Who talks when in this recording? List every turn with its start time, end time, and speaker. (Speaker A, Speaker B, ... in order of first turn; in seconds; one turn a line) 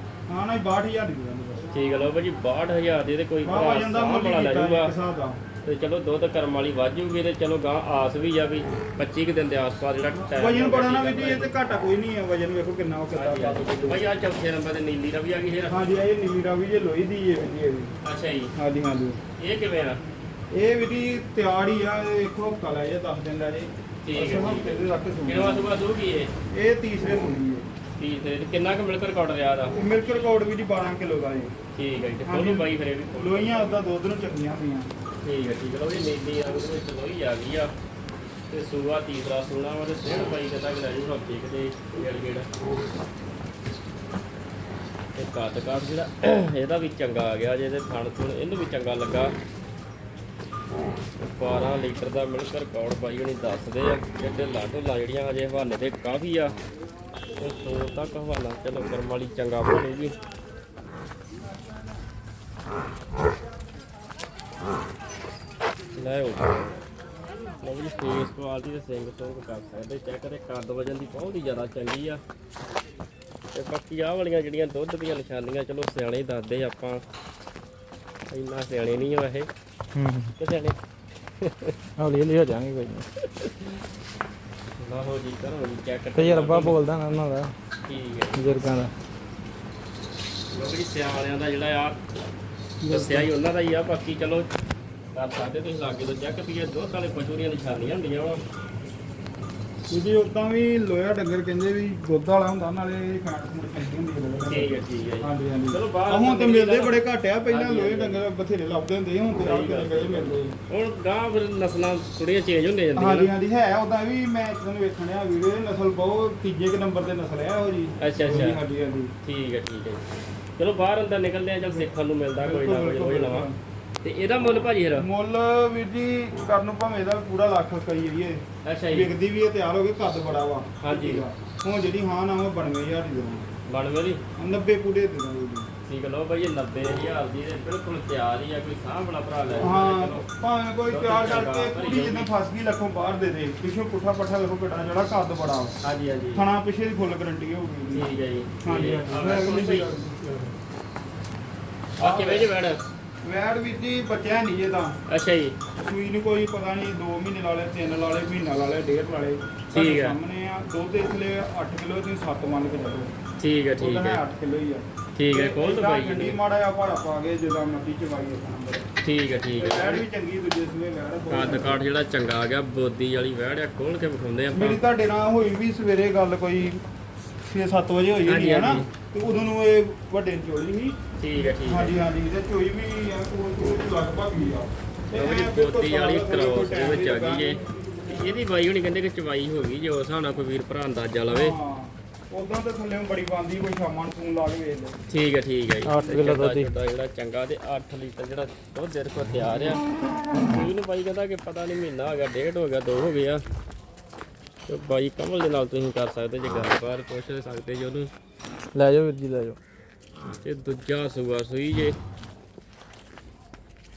Speaker A: 0.3-1.7
Speaker B: 1.7-4.9
Speaker A: 3.4-5.4
Speaker B: 5.6-11.5
Speaker A: 10.1-14.0
Speaker B: 13.1-15.8
Speaker A: 15.7-17.9
Speaker B: 18.0-18.5
Speaker A: 18.6-19.2
Speaker B: 19.4-20.0
Speaker A: 20.5-25.7
Speaker B: 24.1-26.3
Speaker A: 26.5-27.7
Speaker B: 28.0-29.8
Speaker A: 29.8-31.5
Speaker B: 31.8-33.8
Speaker A: 32.3-34.9
Speaker B: 35.2-37.7
Speaker B: 38.5-42.5
Speaker B: 45.2-49.3
Speaker B: 51.2-56.5
Speaker B: 57.4-60.1
Speaker B: 66.0-66.8
Speaker B: 67.6-72.2
Speaker B: 73.5-77.0
Speaker B: 78.3-79.5
Speaker C: 80.0-80.3
Speaker B: 80.4-80.8
Speaker B: 81.4-81.8
Speaker C: 82.0-83.1
Speaker B: 83.4-83.7
Speaker B: 84.8-86.8
Speaker C: 86.2-87.5
Speaker B: 87.8-88.5
Speaker C: 88.3-88.9
Speaker B: 90.5-92.0
Speaker A: 92.8-93.3
Speaker B: 92.9-94.5
Speaker B: 95.1-98.4
Speaker A: 99.9-110.6
Speaker B: 104.5-108.2
Speaker B: 109.4-113.3
Speaker A: 113.0-119.1
Speaker B: 118.0-118.6
Speaker B: 119.2-120.0
Speaker B: 120.6-123.5
Speaker A: 121.7-123.6
Speaker B: 124.0-125.1
Speaker A: 125.0-133.5
Speaker B: 128.6-129.1
Speaker B: 130.8-131.2
Speaker B: 133.7-134.2
Speaker A: 134.4-135.7
Speaker B: 135.9-140.3
Speaker A: 139.6-145.8
Speaker B: 140.9-142.3
Speaker B: 145.8-146.5
Speaker A: 146.3-148.1
Speaker B: 147.9-149.9
Speaker A: 148.6-150.5
Speaker B: 152.0-152.8
Speaker A: 152.0-152.5
Speaker A: 153.2-155.0
Speaker B: 155.1-155.6
Speaker A: 155.8-163.1
Speaker B: 159.7-160.2
Speaker B: 163.4-164.2
Speaker A: 163.8-168.9
Speaker B: 165.2-166.4
Speaker B: 169.0-170.0
Speaker A: 169.6-171.8
Speaker B: 171.3-174.8
Speaker A: 174.5-176.8
Speaker A: 177.5-188.1
Speaker B: 178.3-178.9
Speaker B: 181.2-182.0
Speaker B: 185.2-191.6
Speaker A: 191.3-195.0
Speaker B: 195.1-199.8
Speaker C: 195.9-196.7
Speaker B: 200.4-203.4
Speaker B: 204.7-208.1
Speaker C: 208.7-209.6
Speaker B: 210.4-212.0